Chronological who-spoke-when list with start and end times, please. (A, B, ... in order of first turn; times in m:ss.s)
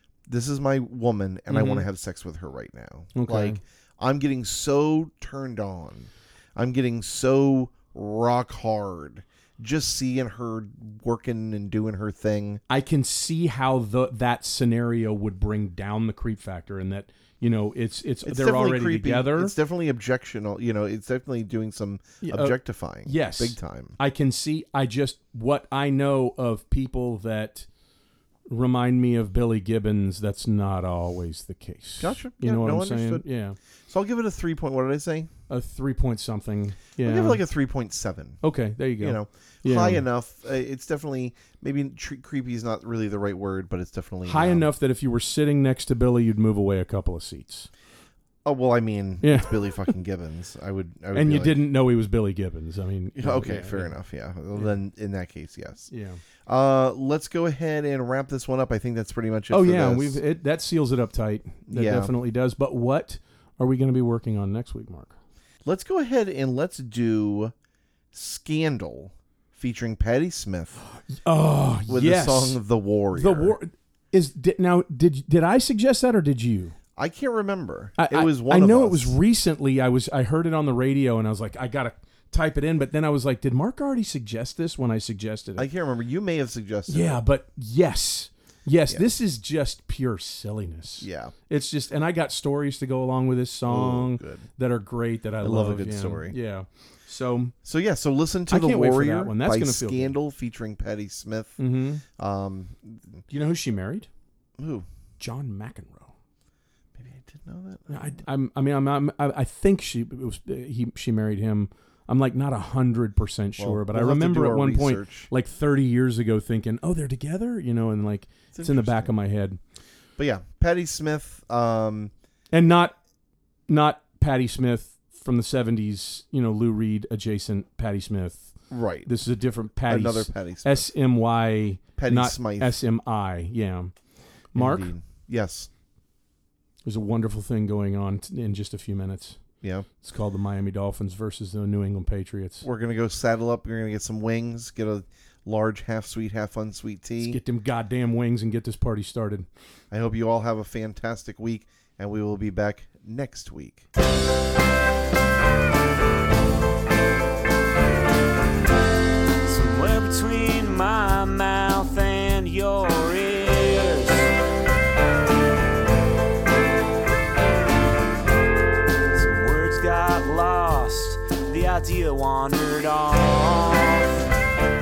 0:00.3-0:12.6 A
0:01.5-0:01.8 B
0:03.1-0:03.6 B
0:12.7-0:19.5 B
0:18.2-0:24.0 A
0:22.2-0:27.7 B
0:28.5-0:33.6 B
0:32.0-0:33.2 A
0:33.9-0:35.3 A
0:35.5-0:37.4 B
0:37.0-0:38.4 A
0:38.4-0:40.0 B
0:39.0-0:44.7 A
0:44.2-0:47.7 B
0:48.4-0:51.6 A
0:49.2-0:49.7 B
0:51.1-0:53.9 B
0:53.2-0:55.9 A
0:55.9-0:56.2 B
0:56.4-1:00.2 A
0:59.5-1:05.2 B
1:01.7-1:02.1 A
1:05.6-1:07.5 A
1:08.1-1:10.8 A
1:11.1-1:12.6 B
1:11.9-1:13.6 A
1:13.1-1:16.8 B
1:17.0-1:19.1 A
1:18.0-1:25.7 B
1:25.6-1:27.2 A
1:26.9-1:37.5 B
1:31.0-1:31.3 A
1:33.7-1:34.4 A
1:35.4-1:36.3 A
1:37.6-1:41.6 A
1:38.5-1:40.1 B
1:41.6-1:42.0 B
1:42.2-1:43.2 A
1:43.3-1:44.1 B
1:44.6-1:44.8 A
1:45.2-1:46.1 B
1:47.0-1:48.2 A
1:47.9-1:59.6 B
1:53.6-1:55.3 A
1:58.5-1:59.1 A
2:00.2-2:02.1 A
2:02.5-2:03.0 B
2:03.7-2:08.5 B
2:08.7-2:09.1 A
2:09.0-2:13.9 B
2:09.9-2:10.9 A
2:12.0-2:12.8 A
2:14.5-2:14.9 B
2:14.6-2:15.7 A
2:16.8-2:19.4 B
2:19.6-2:19.9 A
2:20.0-2:22.6 B
2:22.6-2:27.4 A
2:27.2-2:29.5 B
2:29.9-2:33.8 A
2:39.4-2:44.3 C
2:49.1-2:54.2 C